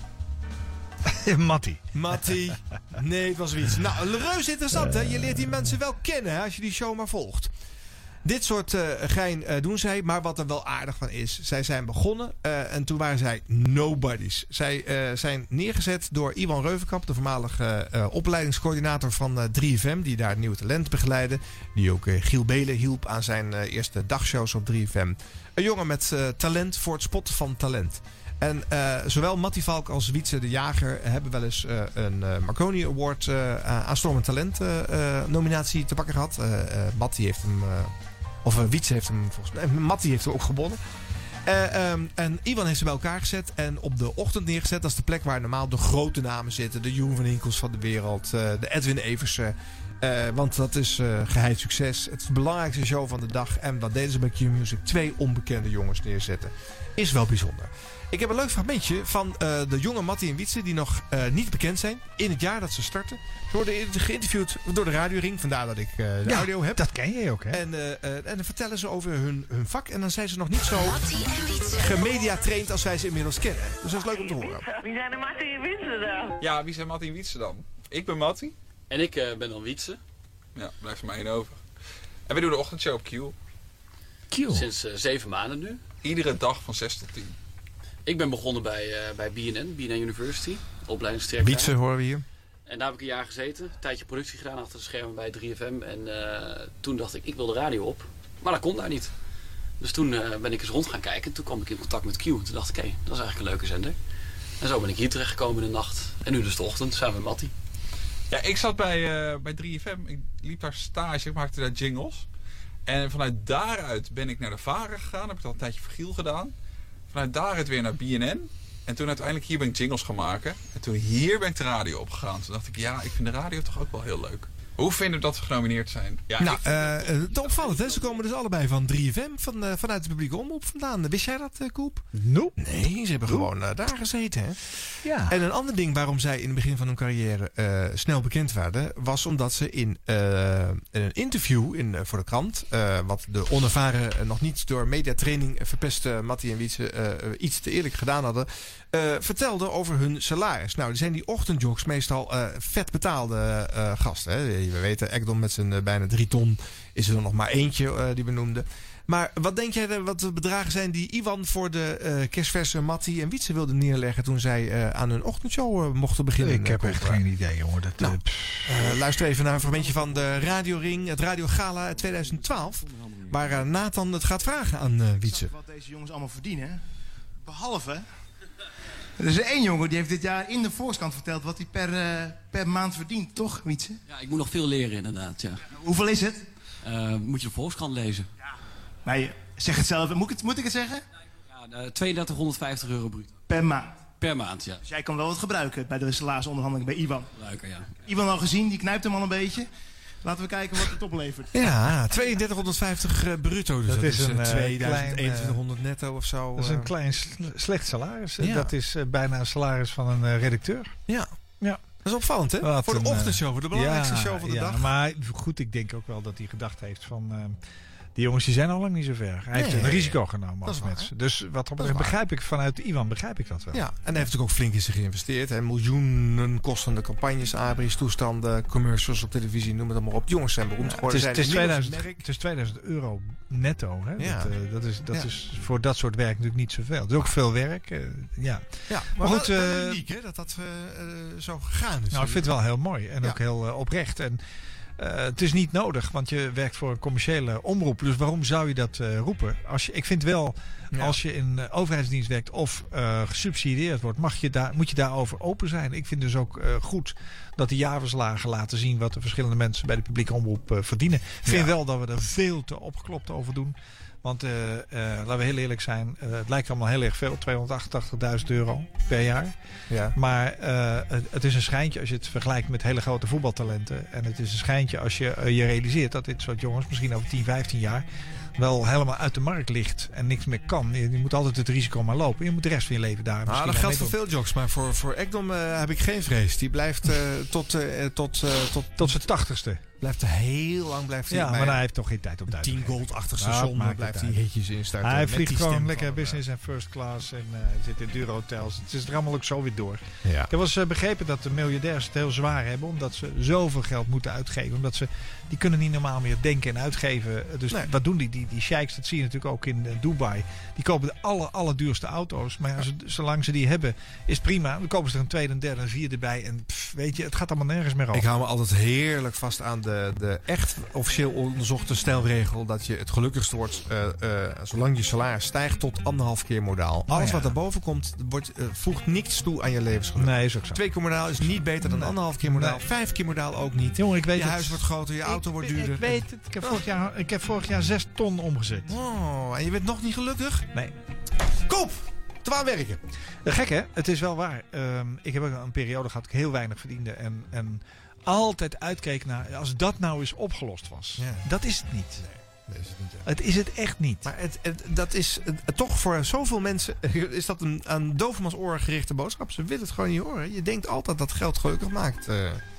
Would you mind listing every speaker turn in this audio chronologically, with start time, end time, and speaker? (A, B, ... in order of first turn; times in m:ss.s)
0:01.1-0:01.8 A
0:01.9-0:07.5 B
0:08.2-0:37.9 B
0:38.4-0:40.8 B
0:41.5-1:06.9 B
1:06.2-1:07.6 A
1:07.5-1:14.7 B
1:14.4-1:16.3 C
1:16.4-1:18.6 D
1:18.9-1:20.0 E
1:20.6-1:21.6 D
1:22.3-1:23.4 D
1:24.3-1:24.7 A
1:24.5-1:25.8 E
1:26.0-1:27.4 D
1:28.1-1:31.8 E
1:31.4-1:32.2 B
1:32.7-1:39.1 E
1:39.8-1:44.0 E
1:44.6-1:47.5 E
1:48.3-1:52.3 D
1:52.9-1:56.6 D
1:57.1-2:07.2 D
2:06.4-2:12.0 B
2:12.2-2:12.6 A
2:12.6-2:47.2 B
2:15.0-2:15.4 A
2:46.4-2:48.7 A
2:48.0-2:55.5 B
2:55.2-2:56.8 F
2:57.4-2:58.1 F
2:59.2-3:04.0 F
3:04.1-3:05.7 E
3:05.7-3:06.4 F
3:06.8-3:08.3 E
3:09.0-3:11.0 F
3:11.6-3:13.4 E
3:13.5-3:14.0 F
3:14.2-3:14.8 E
3:14.8-3:17.3 F
3:17.4-3:17.9 E
3:18.0-3:19.7 F
3:20.2-3:21.5 F
3:21.5-3:26.9 B
3:23.9-3:25.6 A
3:26.6-3:30.9 A
3:28.4-3:28.7 B
3:32.0-3:34.9 B
3:32.6-3:37.6 A
3:38.2-3:43.8 A
3:39.5-3:41.1 B
3:41.8-3:42.2 B
3:43.7-3:52.3 B
3:51.0-4:00.0 A
3:54.2-3:54.5 B
3:58.9-4:02.6 B
4:02.1-4:04.4 A
4:05.0-4:29.5 A
4:10.9-4:11.2 B
4:21.5-4:21.8 B
4:29.9-4:30.2 B
4:30.2-4:38.1 A
4:38.6-4:44.2 A
4:43.5-4:49.3 B
4:49.0-4:49.8 A
4:50.0-4:51.8 B
4:51.3-4:54.4 A
4:52.5-4:56.4 B
4:55.0-5:18.2 A
5:00.2-5:00.5 B
5:18.1-5:36.9 B
5:27.1-5:27.5 A
5:30.2-5:30.8 A
5:31.4-5:32.8 A
5:34.0-5:38.9 A
5:38.9-5:40.7 B
5:41.6-5:43.0 B
5:43.4-5:52.2 A
5:51.2-5:51.5 B
5:52.2-5:53.3 B
5:53.3-5:54.3 A
5:54.2-6:02.6 B